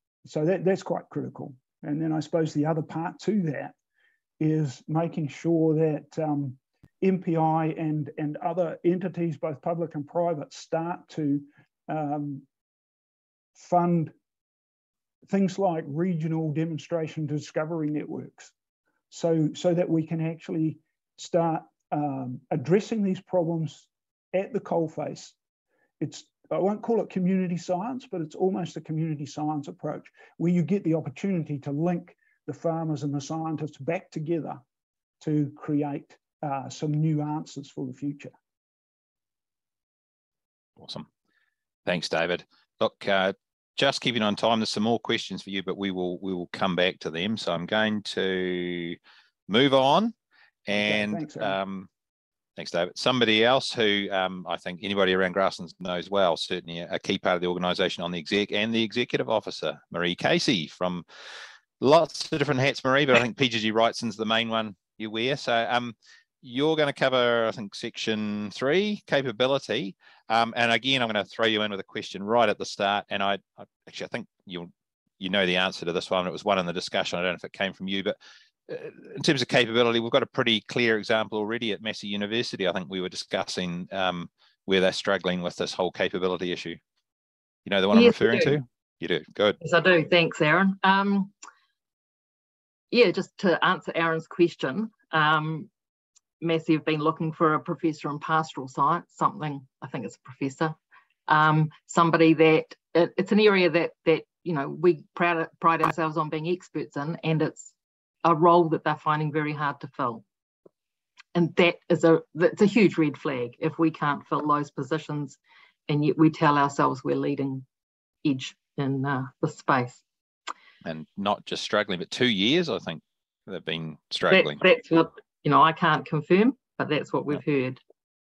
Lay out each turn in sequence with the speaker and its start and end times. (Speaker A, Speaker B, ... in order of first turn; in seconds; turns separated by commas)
Speaker A: 0.2-3.7, Speaker A: 4.4-12.4, Speaker A: 13.5-14.1, Speaker A: 15.3-18.5, Speaker A: 19.1-25.3, Speaker A: 26.0-34.6, Speaker A: 35.2-38.3, Speaker B: 40.8-41.1, Speaker B: 41.8-49.0, Speaker B: 49.5-50.1, Speaker B: 50.6-51.9, Speaker A: 50.7-51.6, Speaker B: 52.6-61.0, Speaker B: 61.8-78.2, Speaker B: 78.7-86.8, Speaker B: 87.7-89.6, Speaker C: 87.9-88.6, Speaker C: 89.6-91.3, Speaker C: 92.9-95.7, Speaker C: 96.4-107.7, Speaker C: 108.2-110.2, Speaker C: 111.3-117.6, Speaker C: 118.2-120.0, Speaker B: 120.8-124.6, Speaker C: 124.3-127.8